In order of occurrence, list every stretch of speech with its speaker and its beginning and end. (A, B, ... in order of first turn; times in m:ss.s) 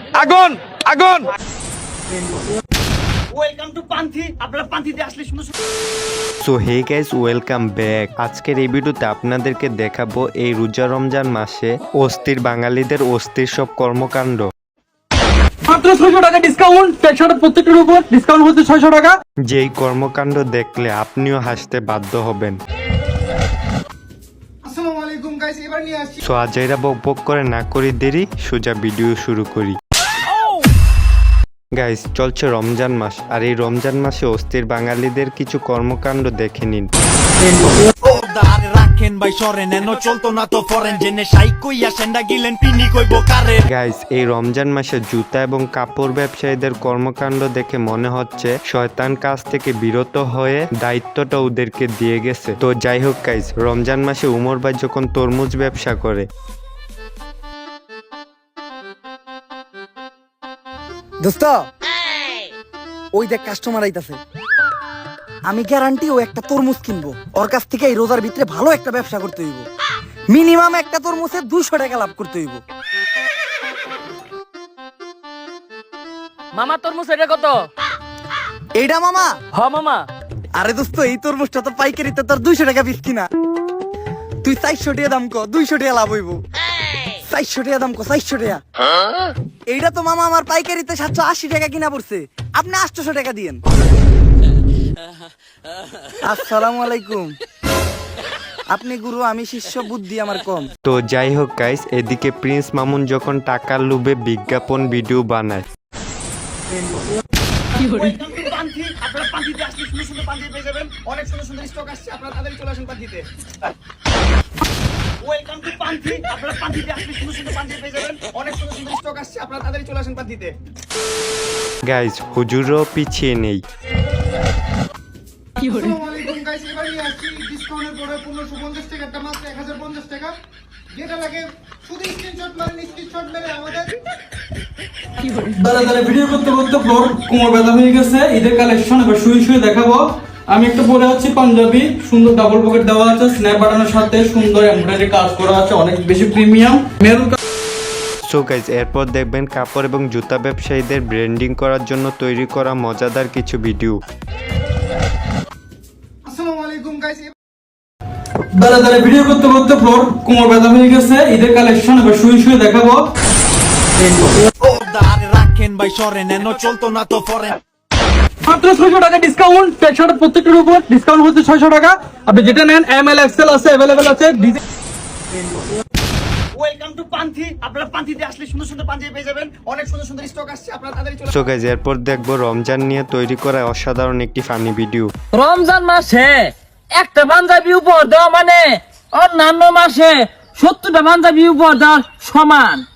0:03.4-0:05.5 A
0:06.4-0:14.5 B
0:15.7-0:19.2 C
0:19.4-0:22.6 B
0:24.6-0:26.2 D
0:26.2-0:29.8 B
0:31.8-0:36.9 B
0:38.0-0:43.6 E
0:43.7-0:56.2 B
1:01.2-1:01.6 F
1:03.1-1:04.2 F
1:05.5-1:09.6 F
1:10.3-1:12.6 F
1:16.6-1:17.6 G
1:18.8-1:19.3 F
1:19.6-1:20.0 G
1:20.5-1:23.3 F
1:24.4-1:26.4 F
1:27.2-1:28.6 F
1:29.7-1:33.6 F
1:36.2-1:37.3 F
1:38.7-1:40.7 F
1:40.8-1:45.6 B
1:47.8-1:53.2 A
1:55.2-2:00.5 A
2:01.8-2:03.6 B
2:05.6-2:10.3 D
2:10.9-2:13.9 D
2:15.5-2:27.4 C
2:28.2-2:34.0 B
2:36.2-2:37.3 D
2:38.5-2:43.0 C
2:44.6-2:47.6 E
2:48.4-2:54.6 C
2:56.6-3:01.3 A
3:01.3-3:05.1 B
3:05.3-3:12.8 G